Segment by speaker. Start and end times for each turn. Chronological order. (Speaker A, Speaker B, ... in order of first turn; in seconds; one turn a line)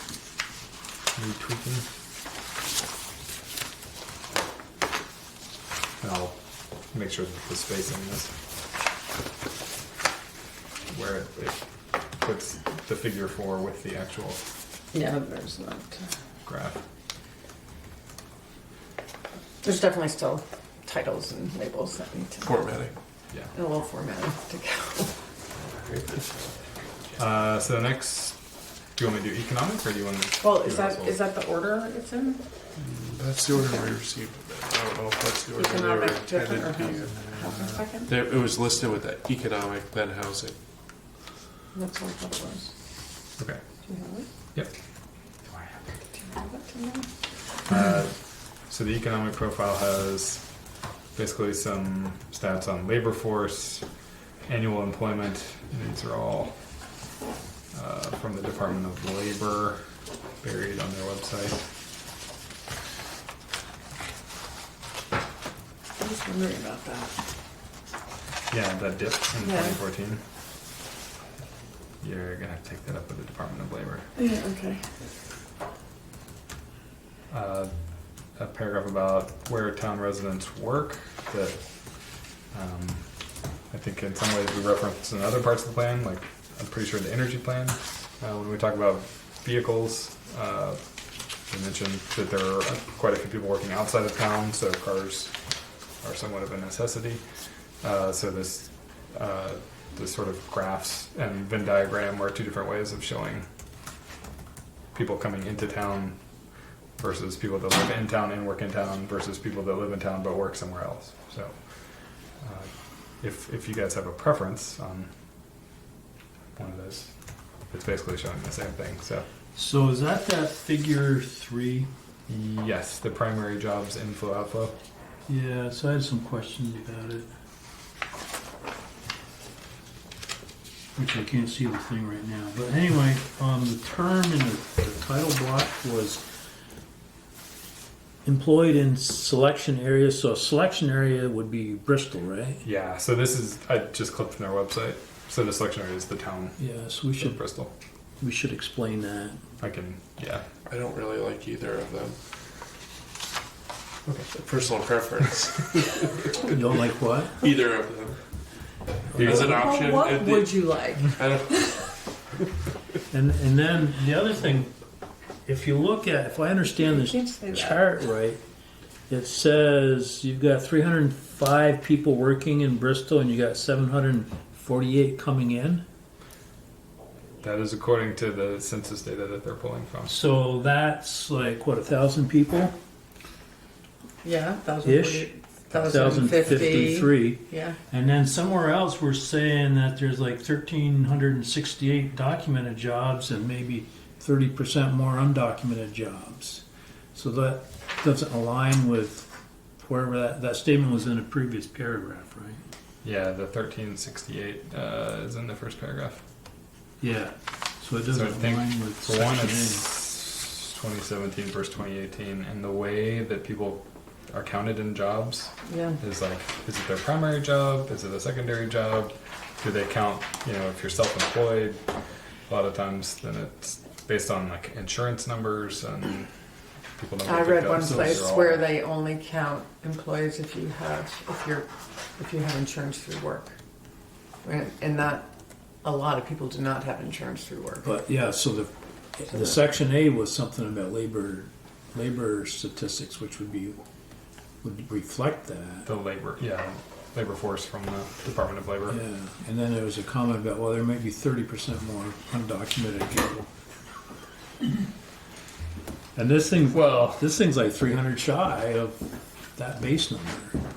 Speaker A: 1.1-1.9
Speaker A: 6.0-8.3
Speaker A: 10.9-14.4
Speaker B: 14.9-16.0
Speaker A: 16.4-16.8
Speaker B: 19.6-22.5
Speaker C: 22.4-22.9
Speaker B: 23.5-25.2
Speaker C: 25.6-26.9
Speaker A: 27.2-31.2
Speaker B: 30.4-32.4
Speaker C: 32.8-37.2
Speaker B: 35.6-38.1
Speaker A: 37.1-37.9
Speaker C: 38.1-40.6
Speaker B: 41.7-42.7
Speaker A: 43.4-43.6
Speaker B: 43.9-44.3
Speaker B: 46.1-47.1
Speaker A: 47.7-50.6
Speaker A: 51.1-53.9
Speaker A: 54.4-56.8
Speaker A: 57.7-59.9
Speaker A: 60.4-61.6
Speaker B: 66.0-67.1
Speaker A: 68.5-70.2
Speaker B: 69.5-69.7
Speaker A: 72.0-74.1
Speaker B: 74.2-74.9
Speaker A: 77.3-103.5
Speaker A: 104.9-106.2
Speaker A: 107.0-115.1
Speaker A: 116.5-117.2
Speaker A: 117.7-119.3
Speaker D: 119.5-121.9
Speaker A: 122.3-124.8
Speaker D: 125.3-127.3
Speaker D: 130.9-136.2
Speaker D: 138.2-142.7
Speaker A: 142.6-147.7
Speaker D: 146.6-147.4
Speaker D: 148.2-149.4
Speaker A: 149.6-150.5
Speaker C: 150.7-152.2
Speaker C: 154.3-156.5
Speaker D: 156.5-157.4
Speaker C: 157.4-158.2
Speaker A: 159.1-159.6
Speaker C: 159.1-161.9
Speaker B: 159.2-161.9
Speaker D: 163.1-164.7
Speaker D: 165.4-168.4
Speaker B: 166.8-167.8
Speaker D: 169.1-175.8
Speaker A: 177.4-180.1
Speaker D: 180.1-182.8
Speaker B: 184.2-187.8
Speaker D: 184.8-196.6
Speaker D: 197.1-202.6
Speaker A: 203.0-206.2
Speaker D: 207.0-209.9
Speaker A: 208.1-221.8
Speaker B: 215.7-216.0
Speaker A: 222.5-226.3
Speaker A: 226.8-228.7
Speaker B: 227.2-233.5
Speaker D: 227.8-228.2
Speaker B: 234.4-235.3
Speaker B: 235.8-237.9
Speaker D: 237.8-243.8
Speaker B: 239.3-239.6
Speaker D: 244.6-245.9
Speaker A: 245.9-249.0
Speaker D: 248.9-253.5
Speaker D: 256.1-259.0
Speaker A: 256.7-257.3
Speaker D: 259.6-260.6